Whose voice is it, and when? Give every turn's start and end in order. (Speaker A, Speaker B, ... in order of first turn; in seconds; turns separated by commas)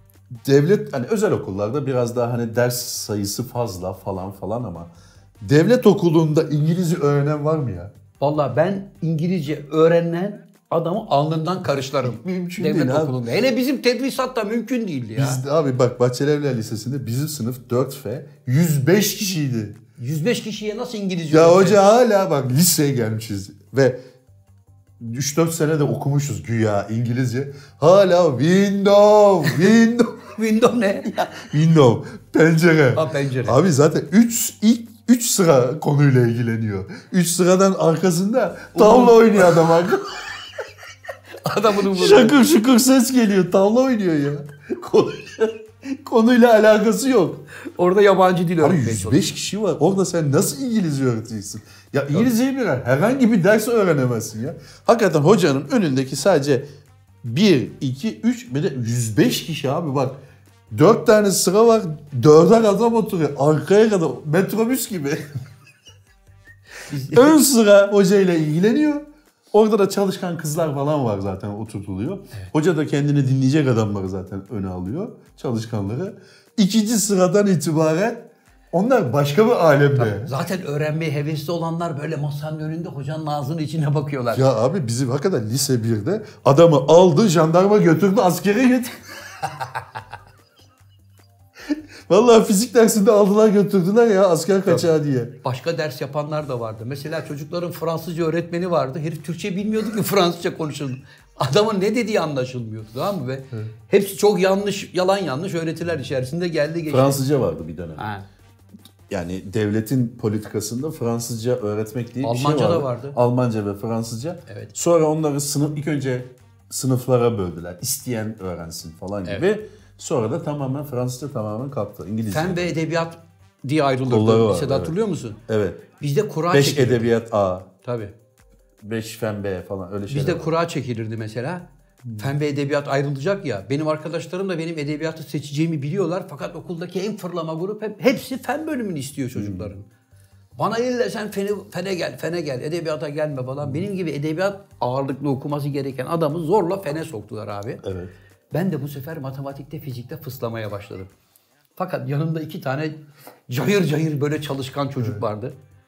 Speaker A: 0.4-7.9, Speaker B: 8.2-15.4, Speaker A: 12.0-13.2, Speaker A: 15.2-19.8, Speaker B: 20.0-21.8, Speaker A: 21.3-24.0, Speaker A: 25.0-30.3, Speaker B: 30.4-31.3, Speaker A: 31.3-40.2, Speaker B: 33.0-33.6, Speaker B: 38.8-39.5, Speaker B: 41.4-42.4, Speaker A: 41.8-47.4, Speaker B: 47.8-49.3, Speaker A: 48.6-56.7, Speaker A: 57.2-60.2, Speaker A: 60.7-65.3, Speaker B: 66.8-67.4, Speaker A: 67.1-80.3, Speaker B: 80.0-84.5, Speaker A: 84.3-89.0, Speaker A: 91.7-95.3, Speaker B: 95.4-107.2, Speaker A: 106.9-108.0, Speaker B: 108.0-108.3, Speaker A: 109.1-122.8, Speaker B: 112.2-113.2, Speaker B: 114.5-114.7, Speaker B: 122.3-125.4, Speaker A: 124.1-125.0, Speaker A: 125.5-125.8, Speaker B: 126.0-127.1, Speaker A: 126.5-127.7, Speaker B: 127.8-128.1, Speaker A: 128.8-130.5, Speaker B: 130.1-139.9, Speaker A: 139.3-139.7, Speaker B: 140.6-147.8, Speaker A: 147.8-148.1, Speaker B: 148.5-151.1, Speaker B: 151.8-153.0, Speaker B: 153.5-155.6